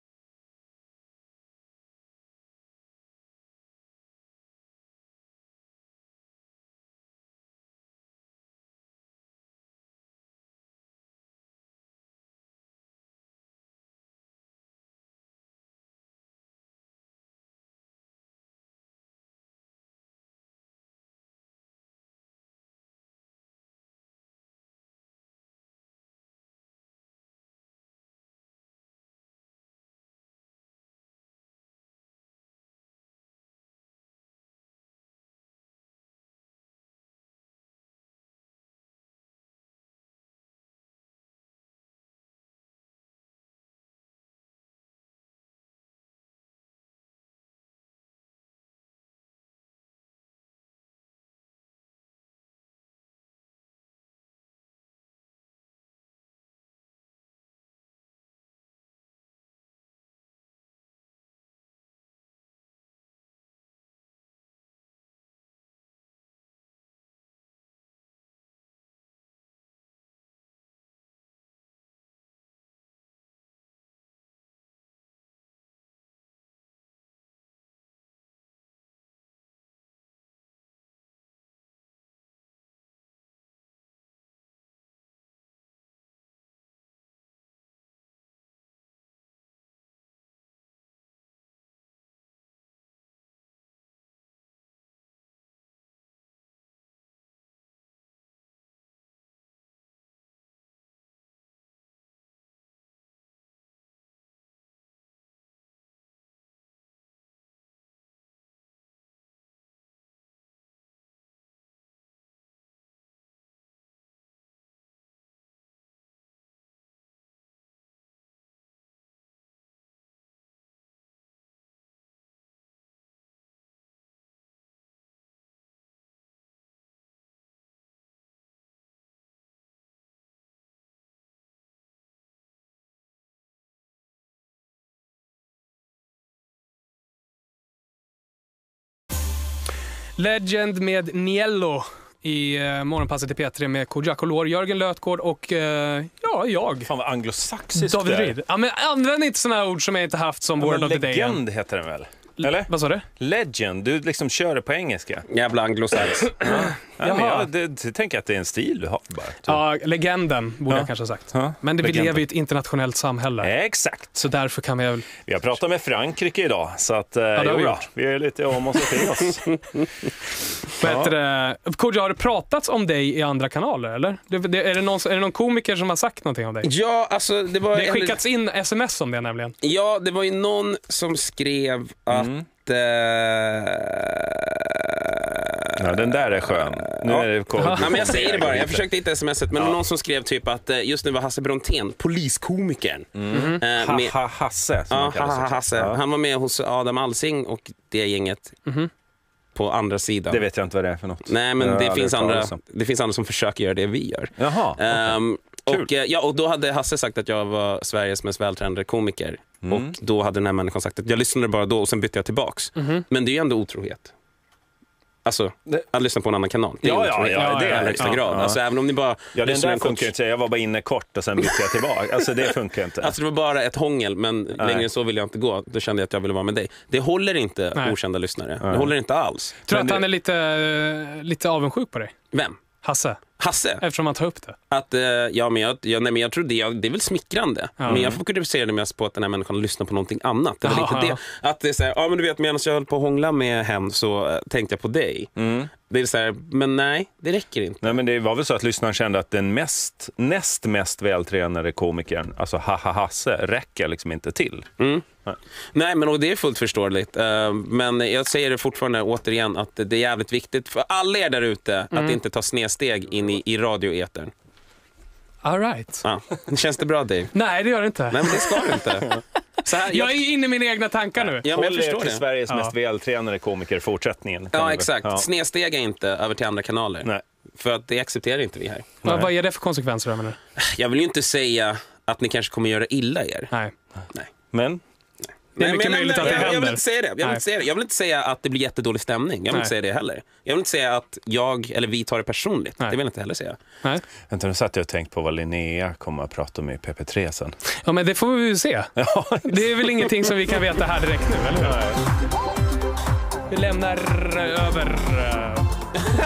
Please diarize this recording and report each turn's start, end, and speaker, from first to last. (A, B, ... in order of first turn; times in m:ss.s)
2:20.2-2:26.9 A
2:26.8-2:28.4 B
2:27.8-2:31.4 A
2:30.6-2:35.2 B
2:32.4-2:33.0 A
2:35.3-2:36.5 C
2:36.4-2:39.6 B
2:37.0-2:37.5 A
2:39.5-2:43.5 A
2:40.7-2:42.2 B
2:43.4-2:44.2 B
2:44.1-2:45.2 A
2:45.2-2:49.5 B
2:47.4-2:47.8 A
2:49.2-2:50.1 C
2:50.8-2:56.7 A
2:50.8-2:51.1 B
2:56.6-2:58.2 C
2:57.7-2:59.5 A
2:59.6-3:14.1 C
3:02.1-3:02.4 B
3:05.8-3:08.9 B
3:07.6-3:08.0 A
3:13.1-3:16.0 B
3:13.3-3:13.6 A
3:14.9-3:18.6 C
3:19.5-3:20.4 C
3:20.3-3:22.6 B
3:21.2-3:34.1 C
3:24.4-3:25.2 B
3:29.6-3:29.9 B
3:32.8-3:33.0 A
3:35.2-3:40.1 C
3:36.8-3:38.6 B
3:37.3-3:38.2 A
3:39.3-3:43.1 B
3:43.0-3:50.0 C
3:44.6-3:44.9 B
3:48.6-3:48.9 B
3:49.7-3:52.1 A
3:52.3-3:52.6 C
3:52.8-3:53.2 A
3:53.4-3:53.8 C
3:53.8-3:54.6 A
3:54.7-4:08.0 C
3:57.8-3:58.1 A
3:57.8-3:58.2 B
4:00.6-4:01.2 A
4:05.4-4:05.7 B
4:07.8-4:14.7 B
4:14.8-4:15.1 C
4:15.7-4:24.3 C
4:21.9-4:22.2 A
4:25.4-4:26.0 A
4:26.0-4:27.3 C
4:27.3-4:28.9 A
4:28.1-4:30.2 C
4:29.7-4:31.4 A
4:31.2-4:35.3 B
4:31.4-4:32.2 C
4:32.5-4:32.7 A
4:34.5-4:38.9 C
4:39.0-4:39.3 B
4:39.0-4:40.4 A
4:40.6-4:43.5 C
4:44.5-4:44.8 B
4:45.5-4:53.6 C
4:45.6-4:47.4 A
4:46.2-4:46.6 B
4:54.3-4:57.6 B
4:57.8-5:01.8 A
4:59.0-5:00.3 B
5:01.6-5:02.0 B
5:03.5-5:05.9 A